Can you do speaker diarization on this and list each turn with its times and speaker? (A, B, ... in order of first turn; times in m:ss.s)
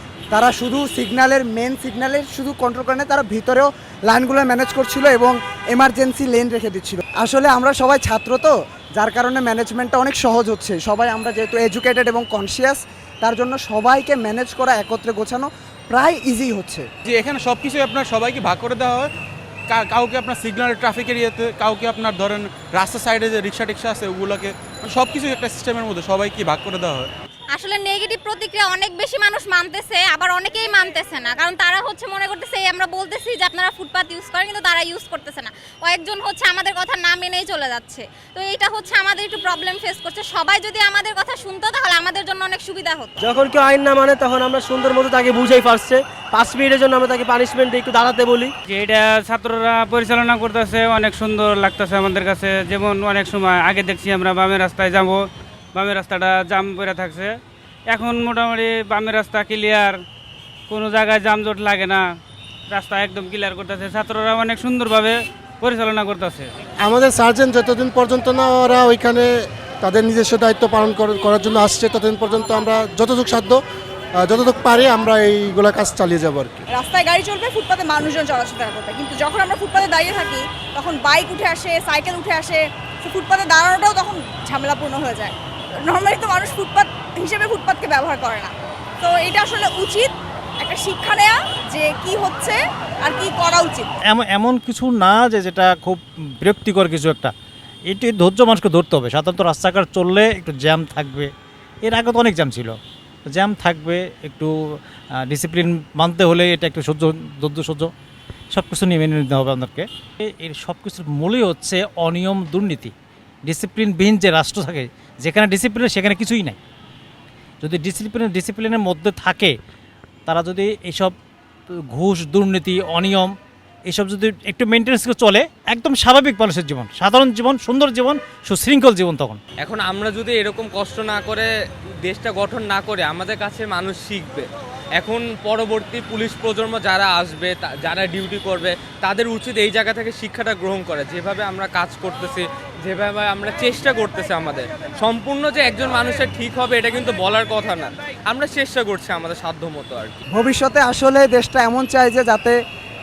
0:00.3-0:16.9 A
0:17.1-0:19.1 B
0:19.7-0:27.1 B
0:27.5-0:43.1 C
0:43.2-0:48.5 D
0:48.7-0:55.2 E
0:55.8-0:57.3 E
0:57.9-1:00.0 E
1:00.7-1:02.0 E
1:02.7-1:06.5 E
1:06.8-1:13.6 F
1:14.2-1:16.6 F
1:16.7-1:33.9 G
1:34.1-1:37.3 H
1:37.9-1:41.3 H
1:41.9-1:42.8 H
1:43.3-1:47.9 H
1:48.5-1:52.9 H
1:53.5-1:56.6 H
1:57.6-1:59.5 H
2:00.3-2:01.1 H
2:01.9-2:03.3 H
2:03.9-2:09.4 H
2:09.6-2:11.5 I
2:12.0-2:30.2 I
2:30.3-2:32.6 A